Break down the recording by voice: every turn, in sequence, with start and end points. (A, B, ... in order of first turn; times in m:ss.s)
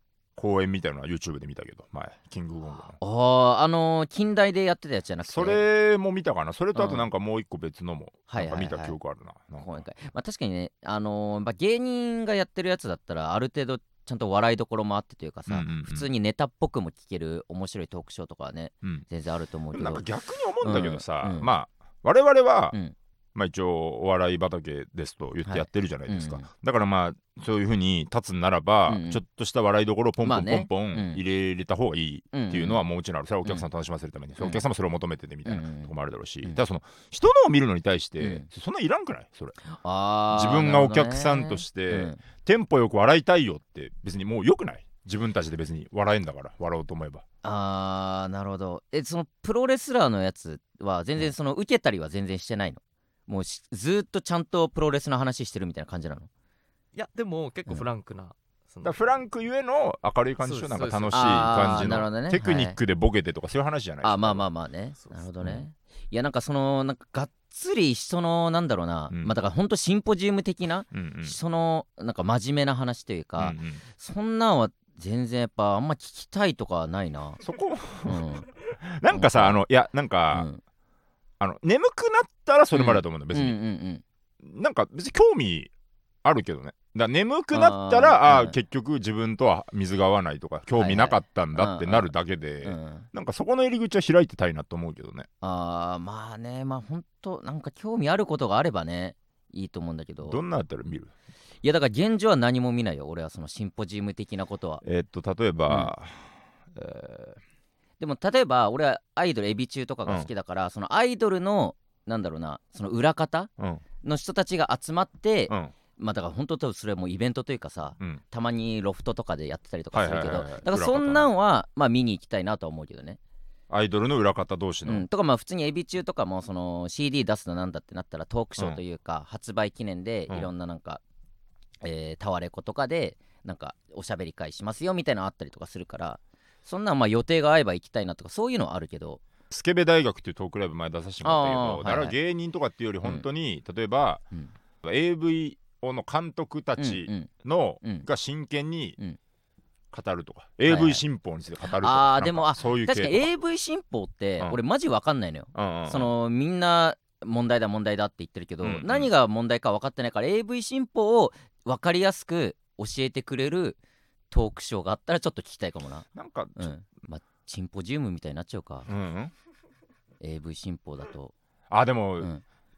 0:00.4-0:03.0 A
0:03.0-0:05.6 B
0:05.2-0:09.8 A
0:06.7-0:07.0 B
0:08.3-0:09.0 B
0:09.6-0:20.0 B
0:15.5-0:16.1 A
0:19.7-0:22.8 A
0:20.6-0:21.5 B
0:23.3-0:39.6 A
0:25.4-0:26.4 B
0:28.9-0:29.2 B
0:30.2-0:31.2 B
0:32.3-0:32.8 B
0:35.4-0:35.9 B
0:38.2-0:38.4 B
0:39.7-0:42.2 B
0:40.3-0:47.2 A
0:47.4-0:56.3 B
0:56.9-0:59.0 C
0:58.8-1:04.4 A
1:00.4-1:01.3 C
1:01.1-1:02.8 B
1:04.0-1:17.4 B
1:10.9-1:11.4 A
1:13.4-1:13.8 A
1:17.4-1:20.5 A
1:18.0-1:18.4 B
1:19.1-1:19.6 B
1:20.3-1:20.6 B
1:21.4-1:23.6 A
1:22.7-1:24.0 B
1:24.4-1:25.7 A
1:26.2-1:35.3 A
1:27.5-1:28.5 B
1:30.7-1:32.1 B
1:32.6-1:33.1 B
1:35.4-1:40.4 B
1:40.2-1:41.1 A
1:41.6-1:44.8 B
1:44.8-1:47.4 A
1:48.0-1:53.5 B
1:54.0-2:03.2 B
1:59.9-2:01.3 A
2:03.7-2:05.0 A
2:04.8-2:11.0 B
2:11.8-2:19.2 B
2:19.5-2:24.2 A
2:21.2-2:22.1 B
2:24.8-2:29.0 A
2:26.8-2:27.3 B
2:29.9-2:33.3 A
2:30.7-2:31.0 B
2:31.7-2:43.8 B
2:35.5-2:36.1 A
2:38.6-2:39.1 A
2:44.3-2:48.9 B
2:46.1-2:46.7 A
2:48.9-2:49.3 A
2:50.2-2:51.3 B
2:51.7-2:52.3 A